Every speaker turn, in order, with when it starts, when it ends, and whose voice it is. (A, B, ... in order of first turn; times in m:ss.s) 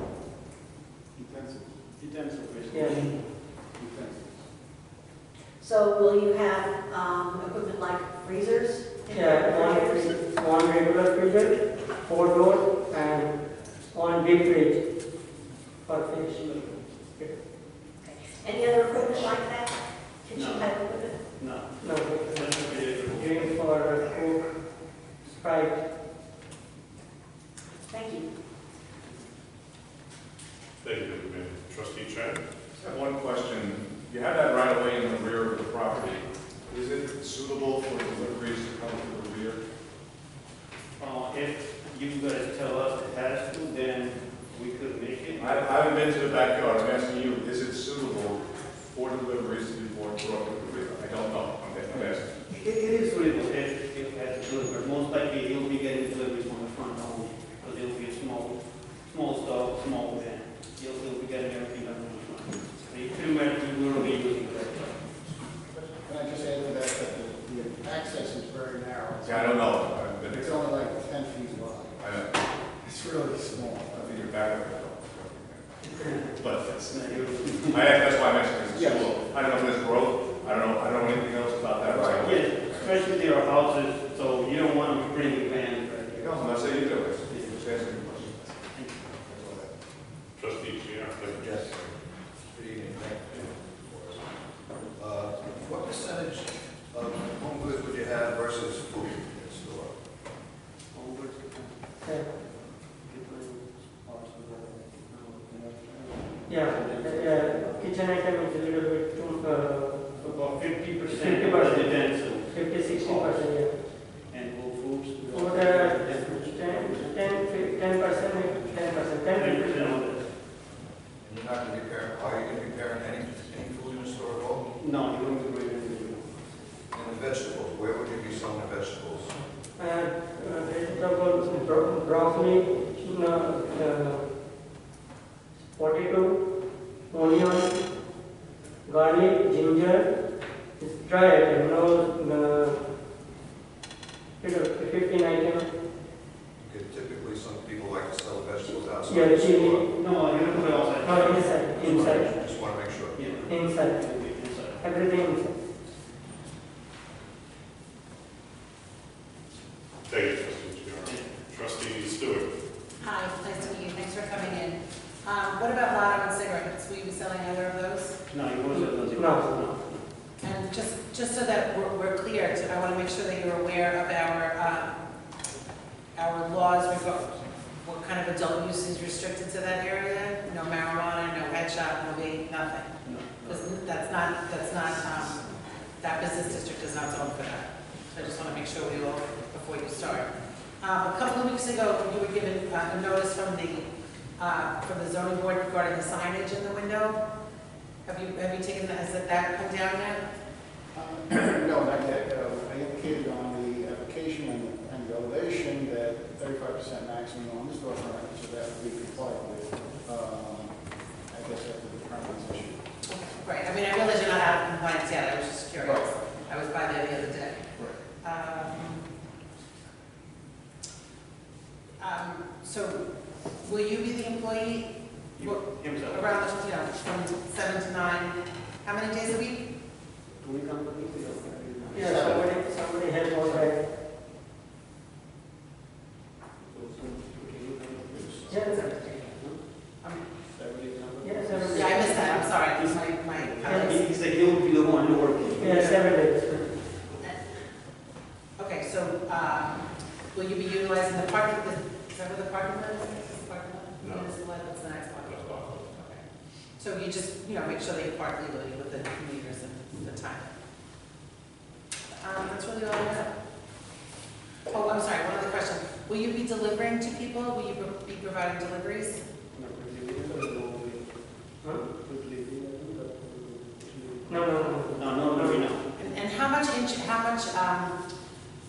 0:01.2-0:01.7 A
0:02.0-0:03.2 B
0:02.7-0:03.0 C
0:03.8-0:04.4 A
0:05.6-0:10.2 D
0:09.1-0:14.8 C
0:15.8-0:16.5 C
0:16.4-0:16.8 B
0:18.0-0:21.2 D
0:20.3-0:20.7 B
0:21.3-0:23.7 B
0:21.8-0:24.5 C
0:25.2-0:25.8 C
0:27.9-0:28.3 D
0:30.8-0:32.4 E
0:32.8-0:39.6 F
0:41.0-0:45.9 B
0:45.4-0:52.4 F
0:51.9-1:05.1 B
1:06.0-1:12.0 A
1:09.2-1:10.5 F
1:12.0-1:12.3 F
1:12.8-1:14.0 A
1:13.9-1:17.0 F
1:15.8-1:18.0 B
1:17.6-1:23.0 F
1:18.7-1:19.1 A
1:21.8-1:22.3 A
1:22.2-1:27.6 B
1:26.2-1:28.7 F
1:28.7-1:29.2 B
1:30.4-1:31.6 E
1:31.3-1:34.2 G
1:34.9-1:40.0 G
1:40.9-1:41.8 B
1:42.0-1:42.3 C
1:43.0-1:45.9 B
1:46.5-1:50.3 C
1:46.7-1:47.8 B
1:50.2-1:58.1 B
1:51.1-1:53.8 C
1:55.3-2:00.0 C
1:59.3-2:00.3 B
2:01.2-2:04.7 G
2:04.8-2:06.4 B
2:06.9-2:09.3 G
2:09.8-2:14.3 C
2:15.7-2:16.4 C
2:17.1-2:17.8 C
2:18.8-2:20.1 C
2:20.8-2:22.8 C
2:24.4-2:25.7 C
2:26.6-2:29.9 G
2:29.0-2:29.8 C
2:29.9-2:32.3 B
2:31.0-2:32.3 C
2:31.7-2:33.2 G
2:33.1-2:34.9 B
2:33.5-2:34.0 C
2:34.8-2:35.6 C
2:40.1-2:42.5 E
2:41.0-2:41.4 B
2:43.0-2:48.2 H
2:48.3-2:50.1 B
2:48.7-2:49.5 C
2:50.4-2:55.0 H
2:56.1-3:17.2 H
3:03.0-3:03.7 B
3:18.0-3:20.2 H
3:20.9-3:32.9 A
3:33.1-3:37.7 H
3:38.2-3:39.1 H
3:42.0-3:43.0 H
3:43.6-3:49.6 H
3:45.4-3:46.4 B
3:50.4-3:52.4 B
3:51.9-3:53.8 C
3:52.0-3:52.4 A
3:53.4-3:53.7 B
3:56.7-3:59.6 B
3:58.5-3:58.9 C
3:58.6-3:59.3 H
4:00.5-4:06.6 B
4:01.2-4:02.4 C
4:01.7-4:04.2 H
4:03.6-4:04.0 C
4:05.6-4:06.6 C
4:05.6-4:06.0 H
4:08.6-4:16.2 H
4:14.0-4:14.4 E
4:15.2-4:16.0 E
4:16.8-4:20.5 H
4:22.2-4:23.3 H
4:24.7-4:29.2 H
4:29.5-4:31.1 B
4:32.0-4:33.1 B
4:33.6-4:35.8 B
4:34.3-4:35.6 C
4:36.0-4:38.0 H